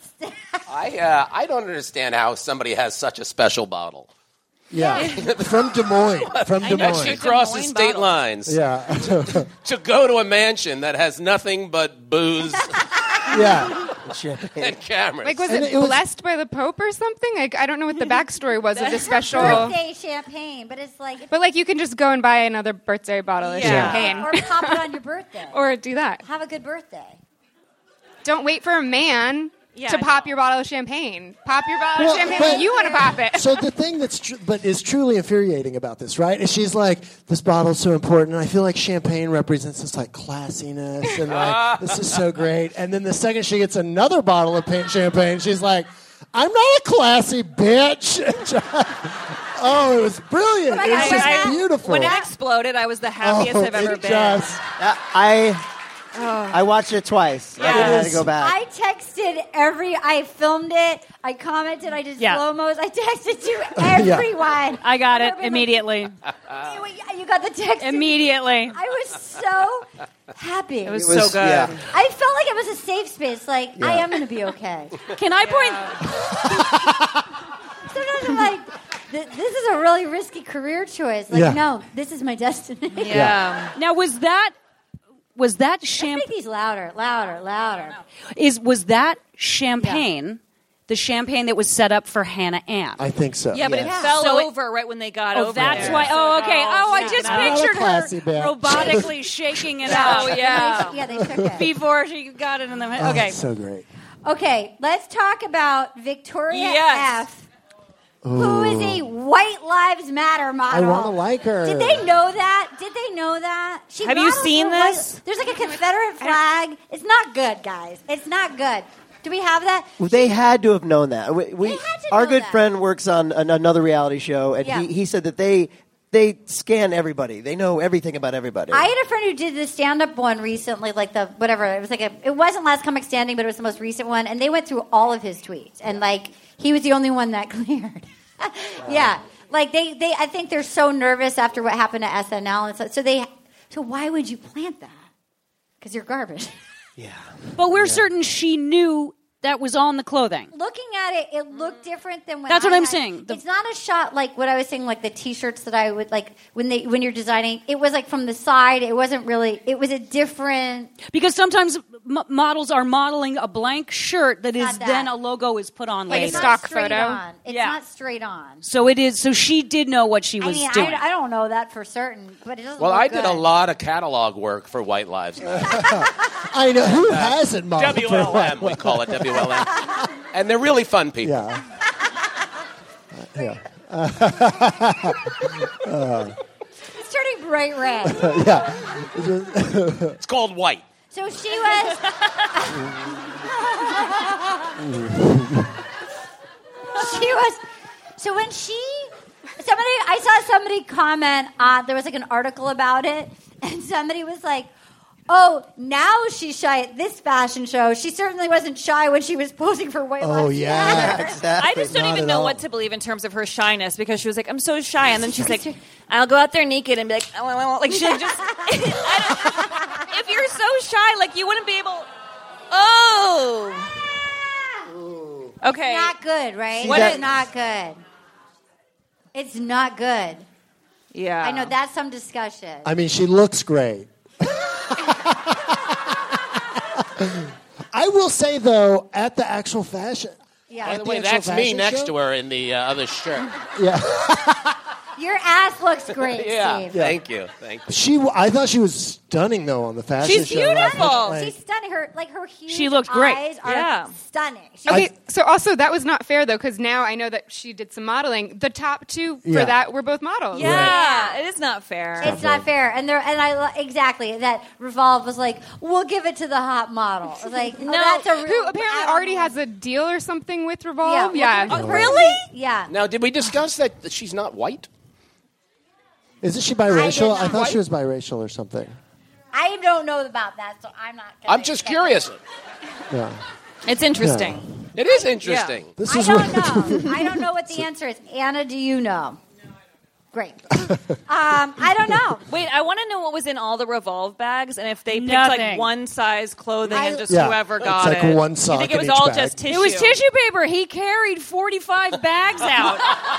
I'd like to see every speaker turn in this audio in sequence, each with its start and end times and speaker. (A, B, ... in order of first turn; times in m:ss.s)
0:00.2-0:00.6 A
0:00.7-0:04.1 B
0:04.7-0:07.2 C
0:04.7-0:05.0 A
0:05.0-0:05.2 D
0:05.1-0:05.6 B
0:06.3-0:12.8 B
0:06.6-0:08.2 D
0:08.5-0:09.5 C
0:12.6-0:13.8 A
0:13.3-0:13.8 C
0:14.0-0:14.8 E
0:14.6-0:15.6 B
0:15.2-0:19.8 F
0:15.4-0:16.0 C
0:18.7-0:19.1 D
0:18.9-0:21.3 A
0:19.4-0:19.6 C
0:21.3-0:24.9 F
0:23.4-0:24.3 D
0:23.6-0:24.0 C
0:23.9-0:25.6 A
0:25.5-0:26.2 F
0:26.2-0:27.2 A
0:28.2-0:33.6 F
0:29.7-0:30.3 D
0:32.0-0:32.7 C
0:32.0-0:33.2 A
0:33.3-0:52.1 C
0:41.3-0:42.1 B
0:50.7-0:52.3 A
0:50.9-0:54.6 D
0:53.2-0:54.6 C
0:54.8-0:55.6 E
0:56.1-0:56.6 D
0:56.5-0:58.6 E
0:57.6-0:58.2 D
0:57.7-0:58.3 C
0:58.4-1:05.8 A
1:03.8-1:04.3 C
1:04.8-1:06.2 G
1:06.5-1:11.1 A
1:07.8-1:08.8 G
1:10.8-1:11.8 D
1:10.9-1:11.8 E
1:11.9-1:15.0 A
1:13.8-1:14.0 C
1:15.1-1:16.0 G
1:15.4-1:15.9 D
1:16.1-1:17.2 C
1:17.9-1:23.2 A
1:21.3-1:21.6 C
1:23.0-1:23.7 D
1:23.1-1:23.4 C
1:23.7-1:24.5 G
1:25.4-1:26.3 G
1:26.0-1:28.0 A
1:28.4-1:33.0 G
1:33.0-1:33.9 C
1:33.5-1:37.7 D
1:33.6-1:34.0 E
1:33.8-1:34.1 A
1:34.1-1:34.5 G
1:35.3-1:40.9 G
1:35.5-1:36.1 C
1:36.9-1:37.2 A
1:37.2-1:39.1 C
1:39.8-1:41.7 A
1:39.8-1:41.0 D
1:41.2-1:41.5 C
1:41.6-1:43.4 G
1:43.0-1:43.8 C
1:44.2-1:47.4 A
1:46.5-1:47.2 D
1:48.2-1:49.1 C
1:48.3-2:00.0 A
1:50.7-1:52.1 C
1:54.0-1:55.2 D
2:00.0-2:08.9 E
2:01.6-2:02.6 A
2:04.6-2:04.9 A
2:08.7-2:25.0 A
2:25.8-2:26.5 A
2:27.0-2:28.0 E
2:27.6-2:30.5 G
2:30.5-2:40.9 A
2:32.5-2:33.4 G
2:41.1-2:46.6 G
2:44.6-2:45.1 A
2:46.1-2:48.6 A
2:46.1-2:47.2 F
2:47.5-2:47.7 D
2:48.6-2:51.0 G
2:50.4-2:53.4 A
2:52.8-2:55.8 B
2:55.6-2:59.9 C
2:56.9-3:01.4 B
3:01.2-3:01.6 C
3:03.1-3:06.4 C
3:06.9-3:08.4 A
3:08.0-3:10.2 C
3:10.2-3:10.8 B
3:11.1-3:14.6 A
3:12.7-3:13.2 C
3:14.8-3:15.7 C
3:16.9-3:17.6 A
3:18.2-3:24.7 A
3:25.3-3:31.4 A
3:30.2-3:31.2 C
3:30.8-3:32.5 E
3:31.6-3:42.1 D
3:31.9-3:32.4 C
3:35.4-3:35.7 A
3:37.9-3:40.0 A
3:42.7-3:44.0 D
3:45.6-3:46.1 D
3:45.8-3:48.0 A
3:46.8-3:47.2 D
3:46.8-3:47.2 E
3:49.3-3:50.4 A
3:51.1-3:51.7 D
3:51.4-3:52.9 A
3:52.8-3:56.1 C
3:57.0-4:02.1 C
4:00.7-4:01.0 A
4:00.8-4:03.5 B
4:03.8-4:04.7 C
4:05.2-4:07.0 A
4:06.2-4:07.9 B
4:06.9-4:07.2 C
4:07.9-4:11.5 C
4:10.2-4:11.4 D
4:10.3-4:15.1 A
4:12.7-4:13.4 G
4:13.6-4:14.1 D
4:14.9-4:20.8 F
4:19.4-4:19.8 C
4:20.5-4:22.4 D
4:20.5-4:20.9 C
4:20.6-4:21.4 A
4:22.2-4:22.7 C
4:22.2-4:29.5 A
4:27.8-4:28.3 D
4:28.4-4:32.0 F
4:31.0-4:32.9 A
4:31.7-4:32.3 C
4:32.9-4:34.9 B
4:36.4-4:39.0 C
4:36.9-4:37.7 A
4:39.5-4:42.2 A
4:41.5-4:42.4 B
4:43.1-4:43.4 C
4:43.8-4:44.7 D
4:44.2-4:44.7 C
4:44.9-4:45.9 B
4:45.0-4:45.3 A
4:45.4-4:45.8 D
4:46.0-4:47.8 C
4:46.0-4:49.4 A
4:50.3-4:52.4 A
4:52.5-5:00.2 D
4:55.1-4:55.9 G
4:56.9-4:57.2 A
4:57.3-4:59.6 C
4:59.7-5:03.1 G